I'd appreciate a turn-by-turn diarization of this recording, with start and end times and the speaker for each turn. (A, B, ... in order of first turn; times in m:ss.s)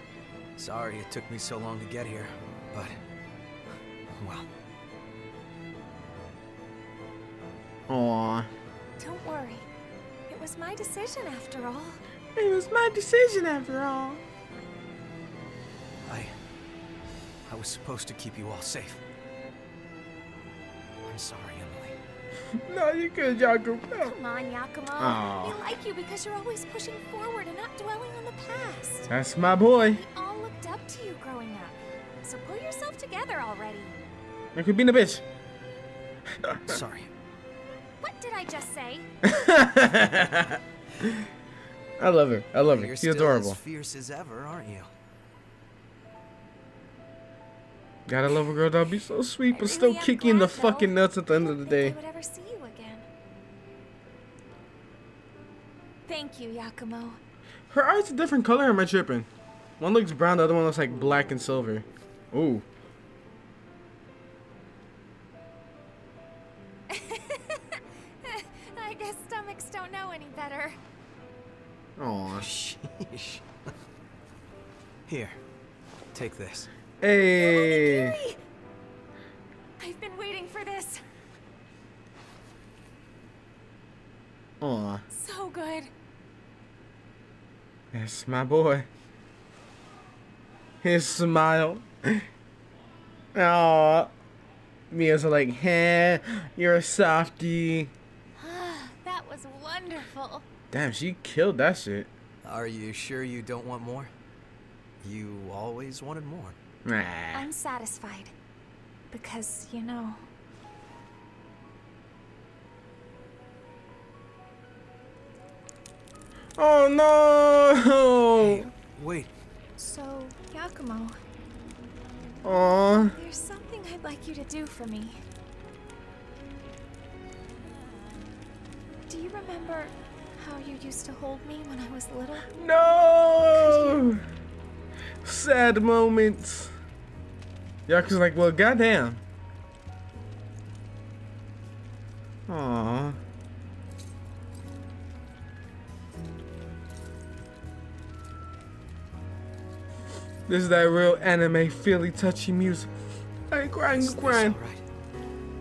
0:00.6-0:03.0 A
0:04.2-0:04.5 A
0:07.9-0:08.5 B
0:09.0-0:09.7 C
0:10.3-0:12.0 C
0:12.4-0:14.2 B
0:16.1-0:16.3 A
0:17.5-0:19.0 A
0:21.0-0:22.0 A
0:22.7-0:24.2 B
0:24.0-0:29.1 C
0:25.0-0:25.6 B
0:29.1-0:30.0 B
0:29.9-0:33.9 C
0:34.6-0:35.2 B
0:36.4-0:36.7 B
0:36.6-0:37.1 A
0:38.0-0:39.0 C
0:39.2-0:41.1 B
0:42.0-0:43.6 B
0:42.7-0:44.9 A
0:48.1-0:52.0 B
0:49.5-0:53.0 C
0:56.1-0:57.2 C
0:57.7-0:59.3 B
0:59.8-1:02.6 B
1:06.9-1:10.8 C
1:12.0-1:12.5 B
1:12.4-1:13.4 A
1:15.1-1:15.4 A
1:16.1-1:16.7 A
1:17.0-1:18.2 B
1:17.3-1:18.4 C
1:19.8-1:21.0 C
1:24.6-1:25.0 B
1:25.1-1:25.9 C
1:27.9-1:28.9 B
1:30.8-1:32.2 B
1:33.3-1:34.1 B
1:34.9-1:37.9 B
1:38.4-1:40.4 C
1:40.7-1:42.1 B
1:42.4-1:44.1 A
1:45.0-1:46.6 A
1:46.8-1:47.5 B
1:47.3-1:48.3 C
1:49.1-1:50.3 C
1:56.6-1:58.7 B
1:58.3-1:59.3 A
1:59.8-2:01.2 C
2:02.4-2:03.2 B
2:03.0-2:05.2 C
2:09.1-2:12.5 C
2:12.5-2:14.2 B
2:13.4-2:14.1 C
2:15.2-2:16.7 B
2:17.9-2:19.2 B
2:22.5-2:23.2 B
2:30.5-2:32.9 B
2:33.5-2:34.6 B
2:33.8-2:34.8 A